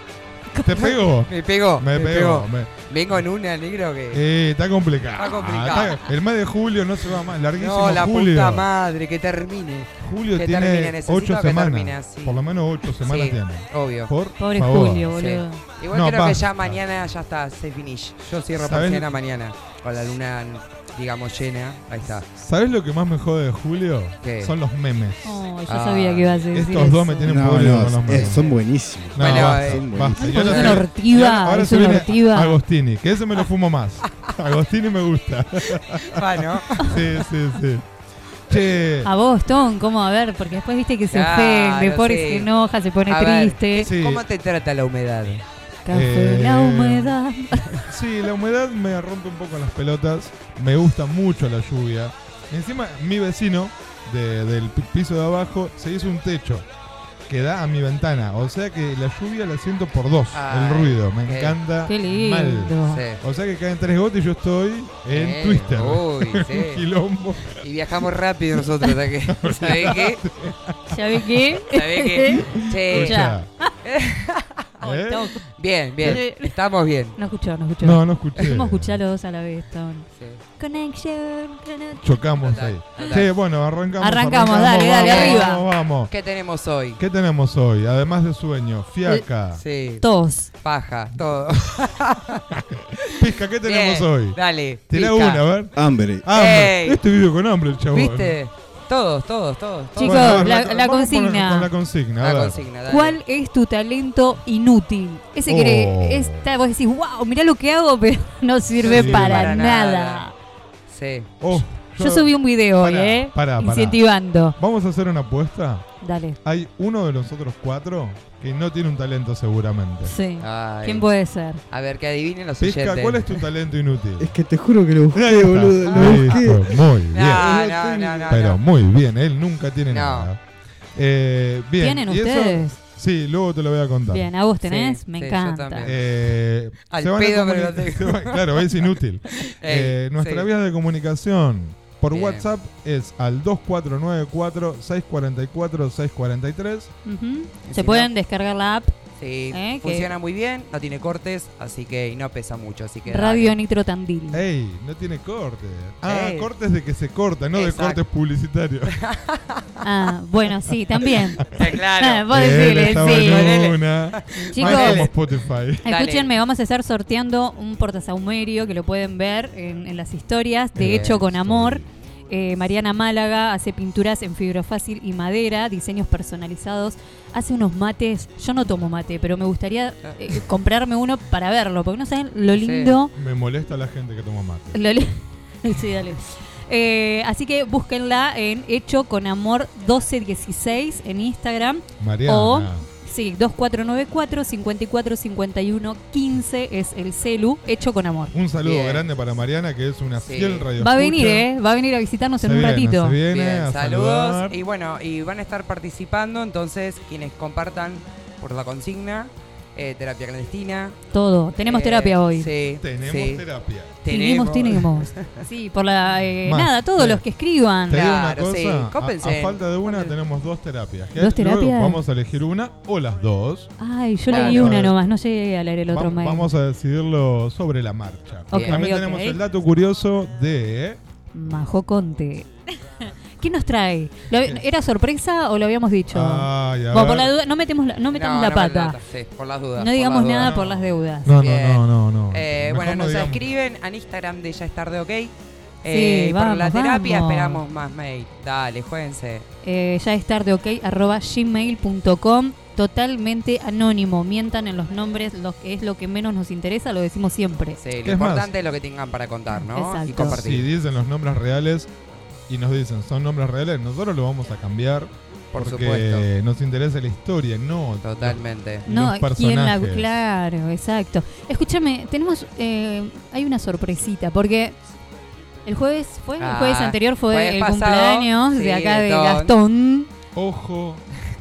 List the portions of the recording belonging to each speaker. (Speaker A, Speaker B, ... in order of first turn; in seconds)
Speaker A: 0.6-2.7, 4.1-8.7, 10.0-15.2, 15.9-16.8, 18.6-19.1, 22.4-25.4, 26.5-28.5, 29.1-37.8, 38.5-39.1, 43.8-44.2, 45.9-47.2, 47.9-56.7, 57.3-67.6, 69.3-70.9, 72.8-73.5, 74.8-75.3, 77.8-79.0, 82.0-86.1, 87.0-89.6, 93.2-98.4, 100.0-102.7, 105.5-106.4, 108.8-109.6, 111.4-114.0, 114.6-115.9, 116.4-120.1, 122.6-124.3, 125.1-130.4, 130.9-134.3, 135.8-146.9, 154.3-159.0, 162.3-165.8, 170.8-171.9, 183.1-184.8, 192.0-192.9, 198.3-201.5, 202.4-204.6, 212.8-213.9, 216.4-217.2, 217.9-223.7, 224.3-225.0, 225.9-231.0, 236.1-237.3, 240.4-243.4, 258.0-258.5, 260.1-261.9, 262.5-270.1, 280.3-281.0
Speaker B: 0.8-4.2, 5.2-6.0, 7.6-12.3, 13.0-14.1, 15.1-22.3, 24.2-24.5, 25.7-26.4, 28.1-28.6, 29.2-30.9, 36.0-36.8, 41.1-42.5, 43.1-45.4, 60.3-61.6, 62.9-63.2, 65.1-66.8, 67.6-70.2, 71.7-73.3, 73.8-74.6, 75.6-77.2, 80.1-80.4, 82.4-83.3, 85.0-85.5, 86.1-87.0, 89.5-90.0, 90.6-92.4, 93.2-95.4, 96.3-97.0, 97.9-100.5, 102.2-103.2, 108.8-110.3, 110.9-111.3, 120.4-121.1, 121.7-123.4, 125.9-126.2, 127.1-128.6, 129.9-130.3, 134.6-136.0, 136.9-138.7, 139.4-140.5, 142.1-142.5, 147.6-148.1, 149.2-153.5, 156.0-156.5, 157.5-158.0, 158.9-159.6, 161.5-165.1, 165.8-166.3, 170.8-171.2, 182.5-183.0, 198.6-199.1, 200.2-200.7, 203.3-211.0, 211.6-213.4, 214.0-215.3, 217.9-220.1, 224.3-224.8, 228.5-228.8, 238.1-249.4, 257.8-260.7, 265.5-266.3, 268.0-268.9, 276.4-279.5
Speaker C: 14.4-15.6, 25.2-27.3, 30.1-32.6, 39.0-43.9, 45.9-47.6, 61.9-63.0, 70.9-73.4, 74.8-75.4, 76.0-76.5, 77.2-80.1, 80.6-82.0, 84.0-85.6, 90.0-90.5, 100.0-101.7, 102.9-110.3, 112.0-114.6, 116.0-116.4, 120.0-121.6, 131.8-132.8, 134.1-135.9, 147.0-148.9, 149.5-150.1, 153.1-154.4, 159.8-161.4, 162.0-163.6, 164.5-165.1, 165.8-183.1, 184.7-198.3, 200.8-203.2, 211.1-212.5, 214.1-218.0, 221.2-222.0, 223.8-226.5, 228.5-229.4, 231.3-232.5, 233.4-239.0, 239.8-241.3, 245.8-247.6, 249.6-257.8, 259.7-260.4, 268.9-274.8, 275.6-280.1
Speaker D: 27.2-30.3, 95.7-96.3, 124.2-126.8